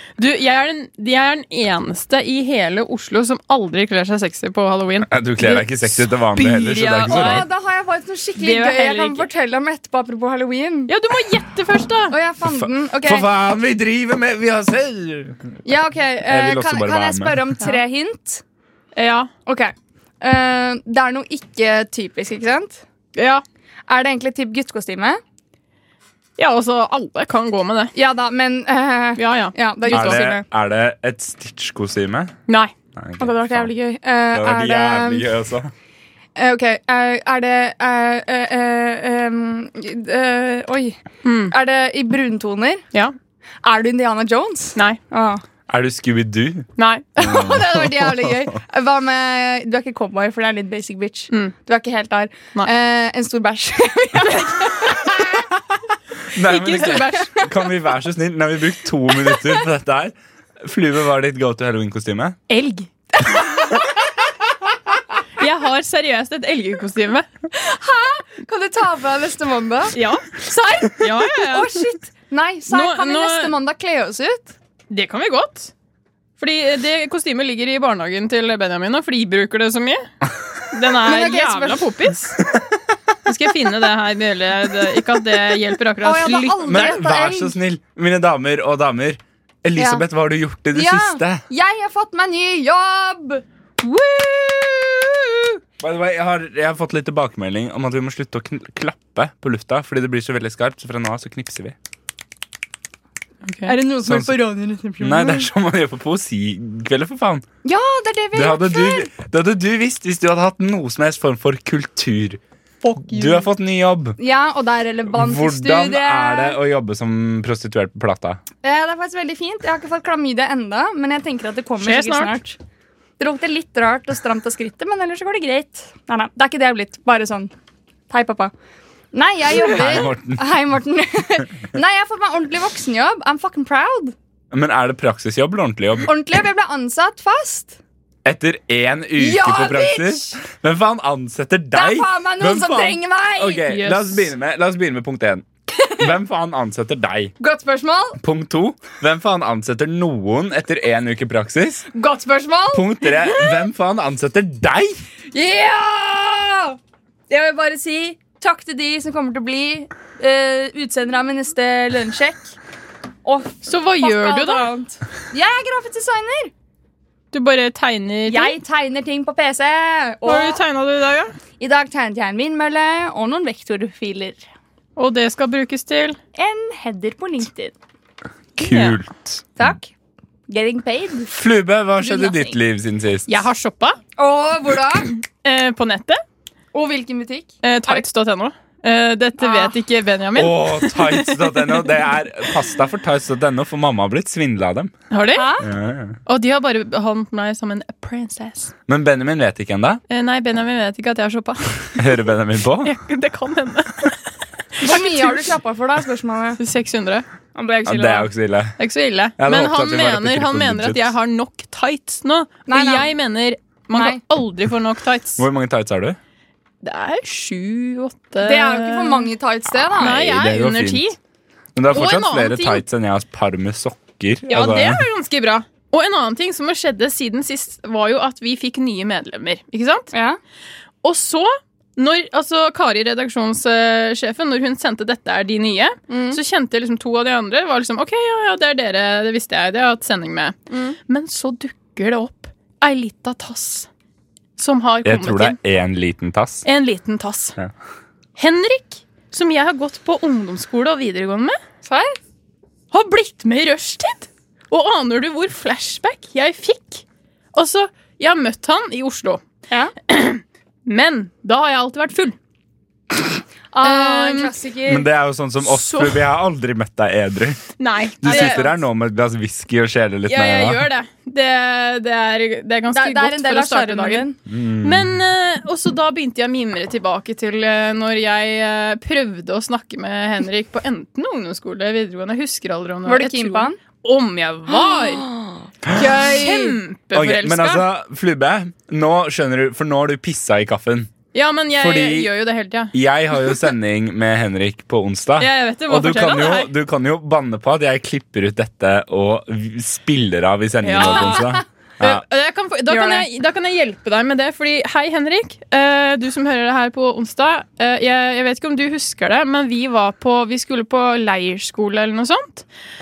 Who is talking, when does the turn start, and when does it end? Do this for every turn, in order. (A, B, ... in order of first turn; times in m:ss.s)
0:00.2-0:07.5 A
0:05.1-0:07.4 B
0:07.0-0:10.9 C
0:08.4-0:09.2 A
0:10.9-0:12.1 A
0:12.1-0:13.3 C
0:12.4-0:15.5 B
0:15.6-0:18.4 C
0:16.2-0:17.4 B
0:18.9-0:19.3 A
0:19.4-0:22.8 C
0:23.1-0:23.4 A
0:23.9-0:25.2 C
0:26.4-0:27.9 A
0:27.9-0:30.4 C
0:29.2-0:30.3 A
0:29.9-0:32.3 B
0:32.5-0:32.7 A
0:33.0-0:33.7 B
0:33.2-0:35.2 C
0:34.3-0:35.7 B
0:36.4-0:41.0 C
0:41.2-0:41.5 A
0:41.5-0:42.8 C
0:43.6-0:45.4 C
0:45.7-0:46.7 B
0:46.8-0:47.6 A
0:47.2-0:48.5 B
0:47.2-0:55.5 C
0:56.3-1:02.4 B
0:56.4-0:57.7 C
0:59.2-0:59.6 C
1:02.5-1:02.9 A
1:03.2-1:03.8 C
1:05.4-1:07.2 A
1:07.5-1:14.5 C
1:09.9-1:11.9 A
1:12.7-1:13.5 A
1:14.9-1:15.7 A
1:16.4-1:20.1 A
1:20.7-1:22.4 A
1:21.0-1:21.9 C
1:23.2-1:26.9 A
1:26.0-1:27.6 C
1:26.6-1:31.4 B
1:29.8-1:30.0 C
1:30.7-1:35.6 C
1:35.8-1:41.8 B
1:43.4-1:43.7 A
1:43.7-1:45.5 C
1:44.0-1:44.4 B
1:45.0-1:47.4 B
1:47.6-1:49.1 C
1:48.3-1:52.4 B
1:52.8-1:53.4 A
1:53.1-1:54.2 B
1:54.2-1:56.6 C
1:55.1-1:58.4 B
1:58.6-2:02.6 C
2:01.8-2:02.4 A
2:03.2-2:07.5 C
2:08.1-2:08.5 C
2:09.1-2:14.1 C
2:09.6-2:10.5 B
2:14.5-2:16.1 B
2:16.1-2:17.8 C
2:18.2-2:25.4 B
2:19.2-2:20.4 C
2:21.7-2:23.6 C
2:23.7-2:24.3 A
2:26.0-2:27.3 B
2:27.4-2:28.2 C
2:28.2-2:31.9 B
2:31.9-2:33.5 C
2:32.7-2:35.0 B
2:35.3-2:36.8 C
2:37.3-2:42.5 C
2:43.2-2:46.5 C
2:43.6-2:44.7 A
2:47.3-2:48.6 A
2:48.2-2:50.6 C
2:50.2-2:51.3 A
2:51.6-2:54.4 C
2:55.0-2:56.2 A
2:56.3-2:57.7 C
2:58.6-2:59.6 B
2:58.6-2:59.0 A
2:59.6-2:59.9 C
3:00.5-3:01.3 C
3:01.3-3:03.3 B
3:02.0-3:02.6 C
3:03.3-3:04.0 A
3:04.2-3:05.1 C
3:05.4-3:06.2 A
3:06.7-3:08.0 C
3:07.6-3:11.8 A
3:09.4-3:09.8 C
3:10.3-3:14.9 B
3:15.1-3:15.5 A
3:15.3-3:15.7 C
3:15.6-3:16.2 B
3:16.2-3:18.7 A
3:18.9-3:20.0 B
3:20.1-3:22.1 A
3:22.0-3:22.9 B
3:22.8-3:25.4 A
3:24.8-3:26.6 C
3:26.6-3:27.2 A
3:27.5-3:28.3 C
3:27.8-3:28.8 B
3:28.8-3:35.4 A
3:29.4-3:31.1 B
3:32.7-3:33.1 C
3:33.9-3:34.2 C
3:35.4-3:36.2 B
3:36.8-3:39.3 A
3:38.4-3:40.2 C
3:40.0-3:41.2 A
3:40.0-3:41.1 B
3:41.7-3:45.0 B
3:41.9-3:42.8 A
3:44.5-3:50.1 A
3:50.1-3:50.4 C
3:51.0-4:03.9 A
3:56.1-3:56.4 C
4:04.6-4:05.6 A
4:05.0-4:06.6 B
4:06.6-4:07.6 A
4:08.4-4:11.6 A
4:11.8-4:12.2 C
4:12.9-4:17.0 A
4:17.5-4:19.4 A
4:20.1-4:22.4 A
4:23.7-4:25.1 C
4:23.8-4:24.5 A
4:24.8-4:27.6 B
4:25.6-4:26.2 A
4:27.8-4:28.7 A
4:28.2-4:30.8 B
4:28.2-4:28.7 C
4:30.3-4:34.3 A
4:32.9-4:34.4 C
4:34.5-4:35.1 B
4:34.8-4:45.3 A
4:43.0-4:43.8 C
4:44.7-4:46.8 C
4:45.8-4:46.3 B
4:45.9-4:47.8 A
4:47.1-4:51.1 B
4:51.3-4:53.6 A
4:51.7-4:52.3 B
4:52.9-5:02.2 B
4:55.4-4:56.7 A
5:00.8-5:12.6 A
5:01.0-5:01.5 C
5:02.9-5:03.3 C